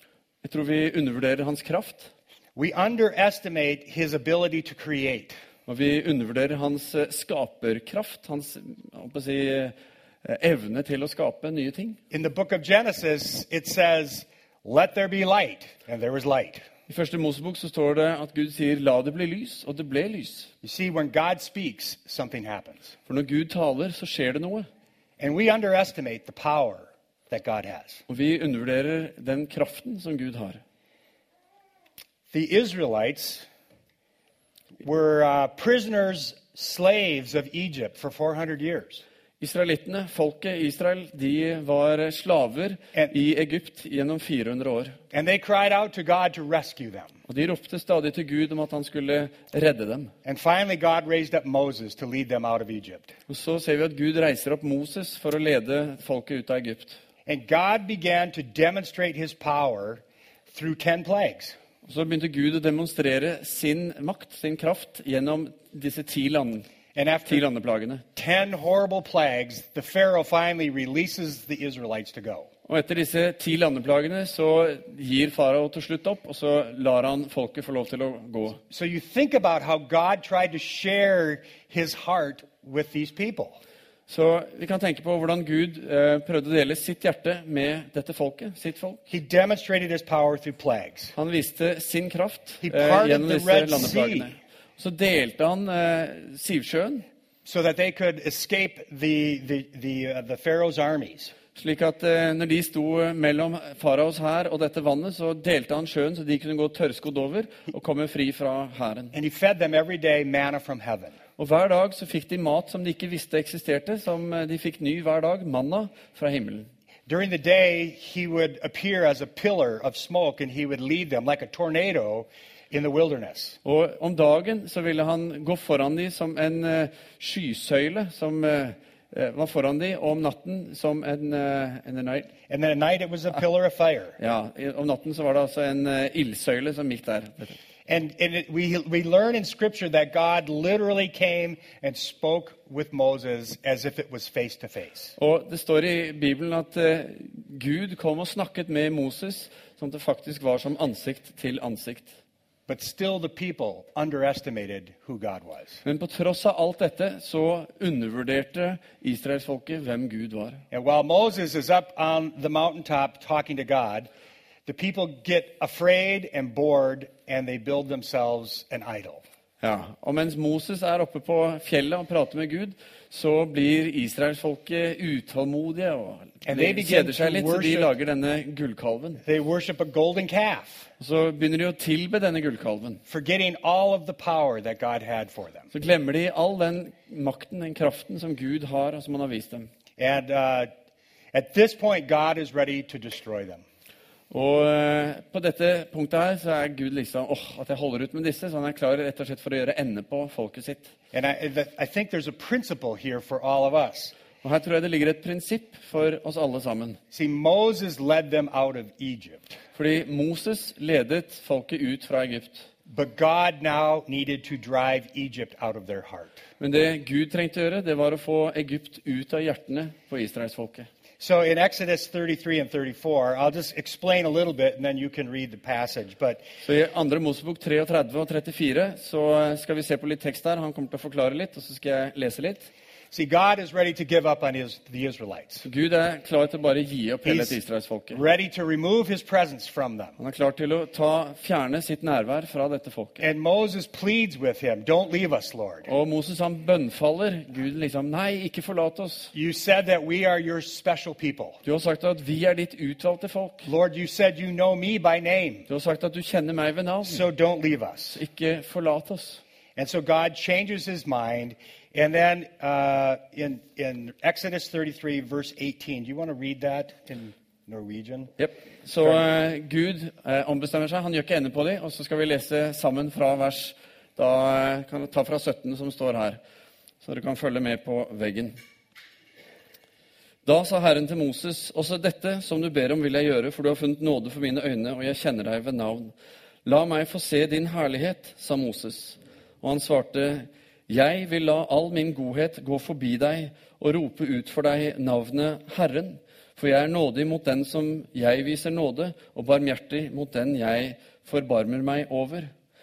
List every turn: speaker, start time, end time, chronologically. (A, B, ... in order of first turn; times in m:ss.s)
0:00.4-0:02.1 A
0:02.5-0:05.3 B
0:05.7-0:12.0 A
0:12.1-0:16.6 B
0:16.9-0:20.5 A
0:20.6-0:22.9 B
0:23.1-0:24.7 A
0:25.2-0:28.0 B
0:28.1-0:30.6 A
0:32.3-0:33.5 B
0:34.8-0:39.0 B
0:39.4-0:45.0 A
0:45.1-0:47.2 B
0:47.3-0:50.1 A
0:50.2-0:53.1 B
0:53.3-0:57.0 A
0:57.2-1:01.6 B
1:01.8-1:06.7 A
1:06.9-1:07.4 B
1:07.3-1:08.0 A
1:08.2-1:12.5 B
1:12.7-1:18.6 A
1:18.7-1:23.6 B
1:24.1-1:29.0 A
1:29.1-1:31.1 B
1:31.2-1:37.0 A
1:32.6-1:34.4 B
1:37.4-1:41.3 B
1:41.5-1:49.1 A
1:49.1-1:51.2 B
1:51.4-1:56.7 A
1:57.1-2:03.6 B
2:03.6-2:12.3 A
2:12.5-2:14.2 B
2:14.2-2:17.6 A
2:17.9-2:25.1 B
2:25.2-2:32.1 A
2:32.7-2:35.8 B
2:35.8-2:40.6 A
2:40.7-2:44.1 B
2:44.6-2:49.2 B
2:49.6-2:59.2 A
2:56.4-2:57.9 B
2:59.2-3:00.9 B
3:01.0-3:03.0 A
3:03.1-3:05.7 B
3:05.7-3:09.7 A
3:10.0-3:10.7 B
3:11.3-3:13.6 B
3:14.3-3:20.9 A
3:21.1-3:24.2 B
3:24.4-3:27.0 A
3:27.1-3:29.6 B
3:29.8-3:32.7 A
3:32.9-3:36.4 B
3:36.6-3:40.9 A
3:41.2-3:46.4 B
3:46.6-3:52.7 A
3:53.1-3:55.6 B
3:55.6-3:58.2 A
3:57.2-3:57.6 B
3:58.1-4:00.2 B
4:00.2-4:03.2 A
4:03.2-4:05.9 B
4:05.9-4:09.3 A
4:09.3-4:11.6 B
4:11.6-4:13.7 A
4:13.6-4:15.7 B
4:15.7-4:17.2 A
4:17.0-4:18.2 B
4:18.1-4:19.4 A
4:19.8-4:28.3 B
4:28.4-4:36.4 A
4:37.0-4:38.5 A
4:40.4-4:46.1 A
4:46.6-5:02.5 A